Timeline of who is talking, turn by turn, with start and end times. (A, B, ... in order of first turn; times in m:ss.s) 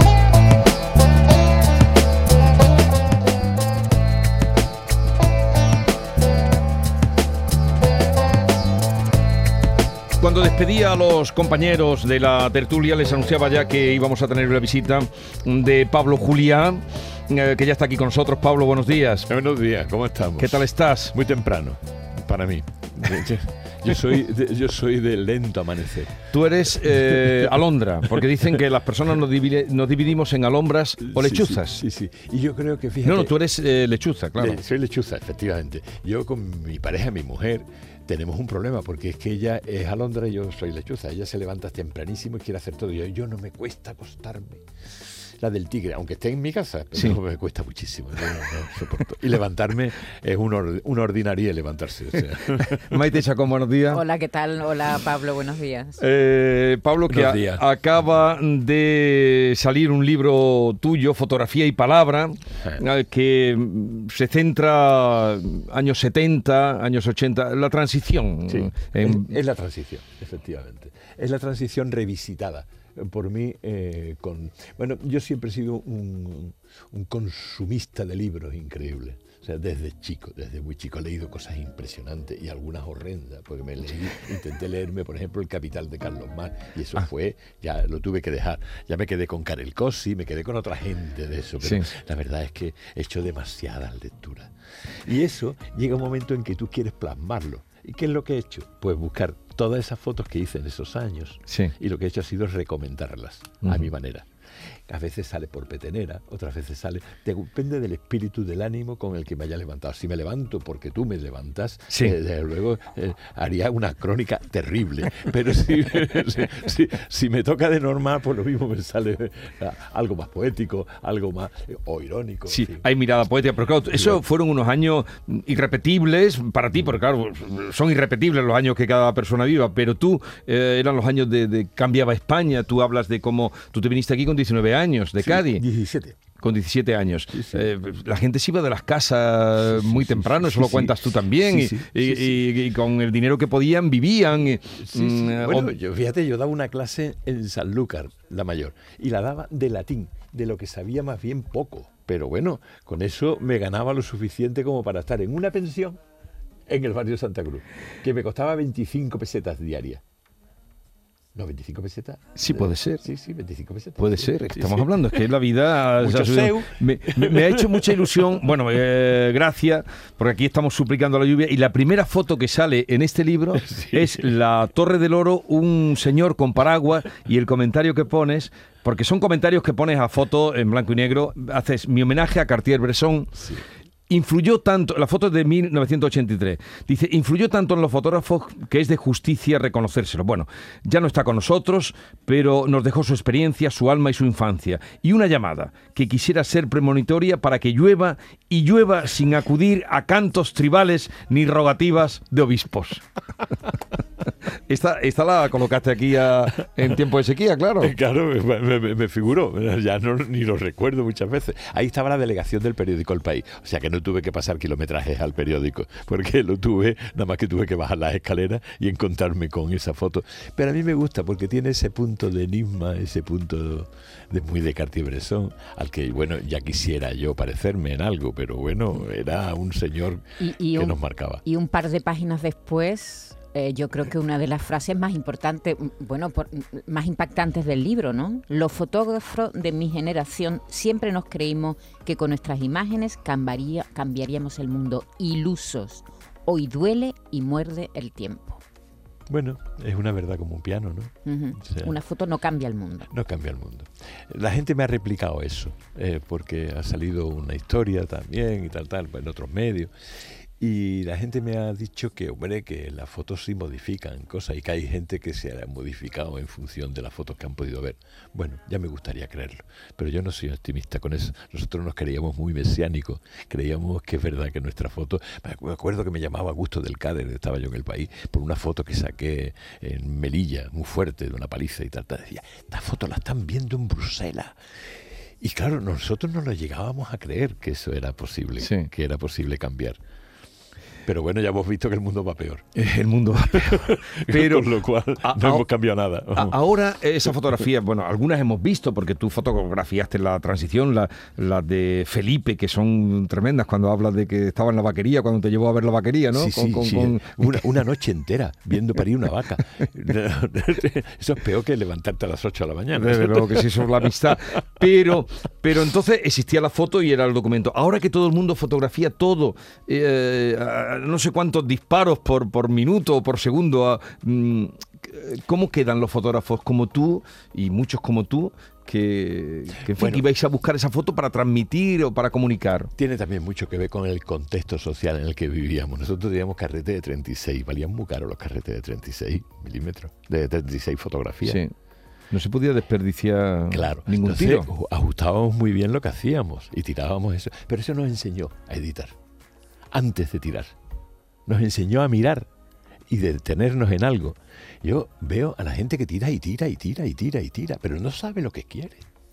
0:10.2-0:19.3 A
0:19.3-0:26.2 B
0:20.4-0:21.1 A
0:26.3-0:31.8 A
0:26.9-0:27.6 B
0:28.1-0:28.6 B
0:31.0-0:33.3 B
0:33.0-0:34.6 A
0:34.4-0:53.0 B
0:52.6-0:54.0 A
0:53.9-0:56.0 C
0:56.0-1:09.3 A
0:57.1-0:57.6 B
1:02.6-1:02.8 B
1:08.5-1:34.5 B
1:35.0-1:44.3 B
1:41.5-1:41.7 A
1:43.6-1:43.9 A
1:44.9-2:02.8 B
2:02.5-2:15.6 A
2:03.9-2:04.2 B
2:15.2-2:16.2 B
2:16.4-2:25.7 A
2:17.3-2:17.6 B
2:19.7-2:22.4 B
2:24.8-2:36.0 B
2:36.7-2:40.0 B
2:41.3-2:45.3 B
2:42.4-2:43.0 A
2:44.0-3:03.4 A
2:46.0-2:48.3 B
2:53.5-2:54.3 B
3:03.4-3:03.6 B
3:04.1-3:23.0 A
3:24.7-3:27.9 A
3:27.8-3:51.4 B
3:50.4-4:08.6 C
4:09.3-4:11.9 B
4:11.2-4:13.1 C
4:13.1-4:19.9 B
4:20.4-4:44.6 B
4:45.4-4:50.0 B
4:48.6-4:48.9 A
4:51.0-4:52.7 B
4:52.8-4:55.6 A
4:53.4-4:56.6 B
4:56.3-5:07.7 A
5:06.3-5:14.1 B
5:12.9-5:32.9 A
5:29.9-5:30.2 B
5:33.0-5:41.6 B
5:41.4-5:41.7 A
5:42.3-5:44.7 A
5:43.7-5:49.2 B
5:49.9-5:50.7 B
5:51.5-5:52.5 B
5:53.1-5:59.0 B